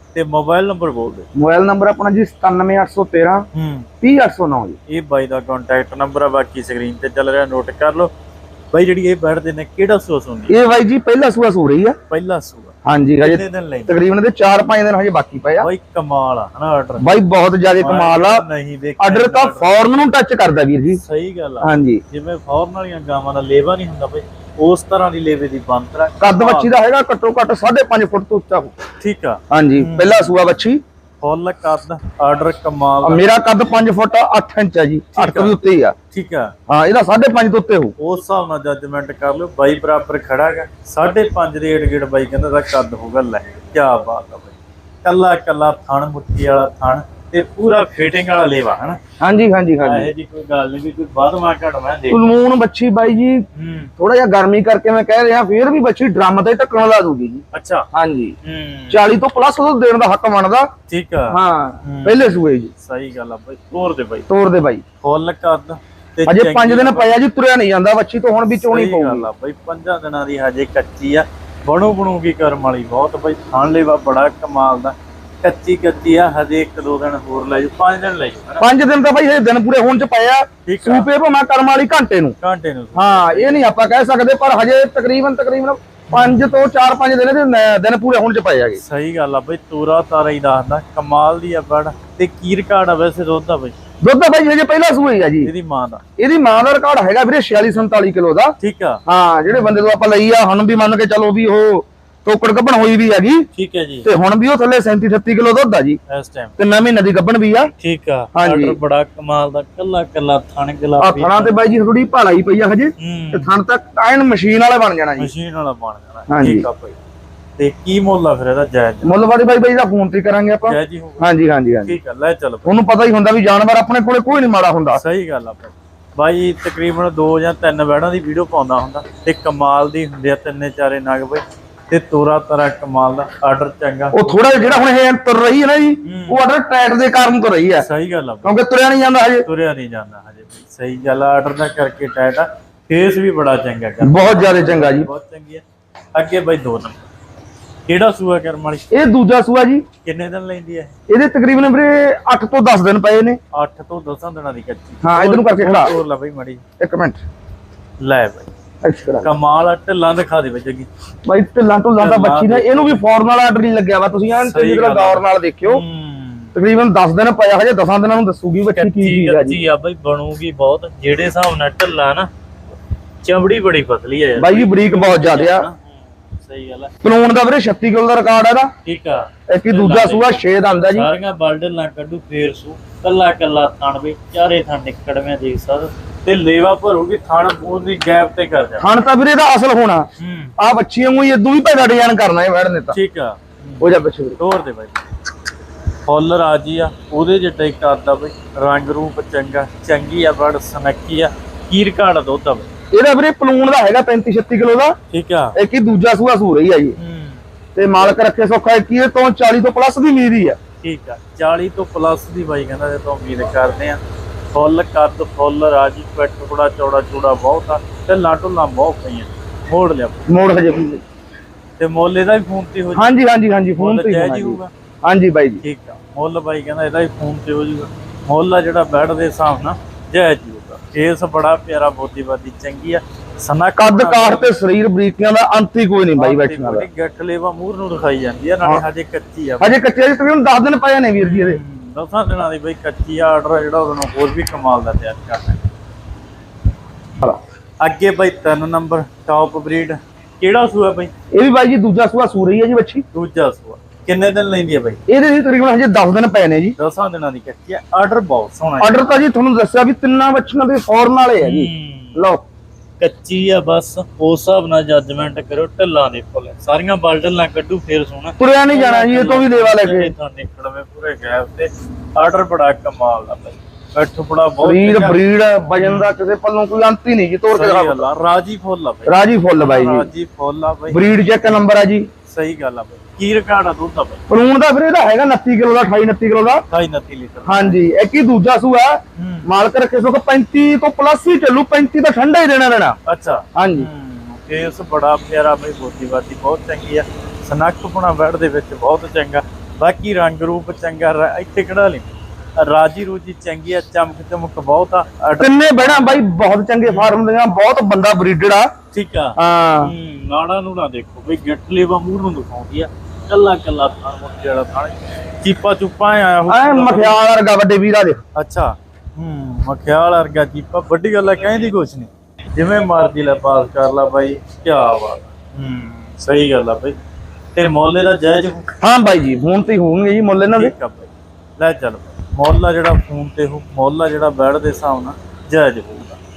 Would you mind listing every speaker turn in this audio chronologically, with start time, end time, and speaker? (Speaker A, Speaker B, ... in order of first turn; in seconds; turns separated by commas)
Speaker A: 0.1-1.3, Speaker B: 1.4-3.5, Speaker A: 3.5-3.9, Speaker B: 4.0-4.8, Speaker A: 4.9-8.1, Speaker A: 8.7-10.6, Speaker B: 10.5-12.0, Speaker A: 12.1-14.0, Speaker B: 12.9-15.7, Speaker A: 15.6-17.2, Speaker B: 17.0-18.4, Speaker A: 17.8-19.8, Speaker B: 19.0-21.0, Speaker A: 20.9-26.7, Speaker B: 21.6-22.0, Speaker B: 26.2-28.8, Speaker A: 29.0-30.5, Speaker B: 29.5-30.8, Speaker A: 31.2-33.3, Speaker B: 33.0-36.0, Speaker A: 35.1-35.6, Speaker A: 36.1-36.5, Speaker B: 36.7-38.0, Speaker A: 38.0-49.0, Speaker B: 49.2-50.1, Speaker A: 49.8-52.3, Speaker B: 52.1-53.4, Speaker A: 53.5-53.9, Speaker B: 54.0-58.4, Speaker A: 57.5-57.9, Speaker A: 58.4-59.0, Speaker B: 58.9-60.7, Speaker A: 60.9-64.3, Speaker B: 61.3-62.7, Speaker B: 64.3-64.8, Speaker A: 65.0-67.2, Speaker B: 66.3-69.3, Speaker A: 68.6-78.7, Speaker B: 78.6-82.4, Speaker A: 80.7-81.1, Speaker A: 82.4-83.7, Speaker B: 83.0-88.8, Speaker A: 86.1-86.7, Speaker A: 88.8-93.8, Speaker B: 94.0-95.5, Speaker A: 95.4-96.0, Speaker B: 96.2-98.5, Speaker A: 98.6-99.0, Speaker B: 99.1-103.5, Speaker A: 103.5-104.1, Speaker B: 104.0-106.0, Speaker A: 106.1-106.5, Speaker B: 106.6-107.7, Speaker A: 107.8-111.6, Speaker B: 108.3-108.8, Speaker B: 111.0-115.3, Speaker A: 113.0-113.5, Speaker A: 115.2-117.0, Speaker B: 116.3-116.7, Speaker A: 117.6-119.1, Speaker B: 119.0-122.0, Speaker A: 120.6-122.9, Speaker B: 122.7-125.0, Speaker A: 124.9-134.9, Speaker B: 134.1-137.9, Speaker A: 136.1-136.4, Speaker A: 137.8-138.6, Speaker B: 138.4-139.5, Speaker A: 139.4-145.6, Speaker B: 144.0-145.1, Speaker A: 146.1-147.1, Speaker A: 147.9-148.9, Speaker B: 148.9-149.8, Speaker A: 150.0-150.9, Speaker B: 151.1-153.4, Speaker A: 153.5-156.6, Speaker B: 155.0-155.9, Speaker B: 156.8-157.2, Speaker A: 158.0-158.5, Speaker B: 158.8-159.3, Speaker A: 159.2-160.9, Speaker B: 161.3-165.8, Speaker A: 162.0-163.0, Speaker A: 164.4-166.6, Speaker B: 166.6-169.6, Speaker A: 168.6-172.3, Speaker A: 173.2-176.9, Speaker B: 174.4-175.7, Speaker B: 177.0-178.7, Speaker A: 178.8-188.9, Speaker B: 179.5-181.1, Speaker B: 188.8-190.1, Speaker A: 190.2-190.6, Speaker B: 190.6-193.0, Speaker A: 192.9-195.0, Speaker B: 193.8-194.4, Speaker A: 196.0-202.7, Speaker B: 202.9-204.9, Speaker A: 205.1-205.6, Speaker B: 205.6-207.0, Speaker A: 207.0-207.4, Speaker B: 207.8-210.6, Speaker A: 210.8-214.0, Speaker A: 214.5-220.3, Speaker B: 220.3-221.0, Speaker A: 221.8-223.1, Speaker B: 222.9-225.6, Speaker A: 223.8-224.7, Speaker A: 225.6-234.6, Speaker B: 233.8-236.9, Speaker A: 236.2-239.8, Speaker B: 239.6-241.6, Speaker A: 241.2-245.6, Speaker A: 247.8-251.1, Speaker B: 251.3-253.0, Speaker A: 253.1-255.0, Speaker B: 255.1-256.8, Speaker A: 256.8-259.1, Speaker B: 258.8-262.4, Speaker A: 261.4-262.2, Speaker A: 263.0-275.2, Speaker B: 268.4-270.1, Speaker B: 274.6-278.1, Speaker A: 275.8-276.2, Speaker A: 277.5-281.6, Speaker B: 279.1-280.1, Speaker B: 280.9-282.1, Speaker A: 282.3-284.2, Speaker B: 284.3-286.6, Speaker A: 286.7-287.8, Speaker B: 287.5-293.0, Speaker A: 289.2-289.5, Speaker A: 293.1-306.2, Speaker B: 293.6-293.9, Speaker B: 305.4-308.7, Speaker A: 306.9-307.2, Speaker A: 308.9-317.2, Speaker B: 309.4-309.9, Speaker B: 316.5-318.2, Speaker A: 318.4-327.0, Speaker A: 327.6-328.7, Speaker B: 328.8-330.7, Speaker A: 330.5-336.2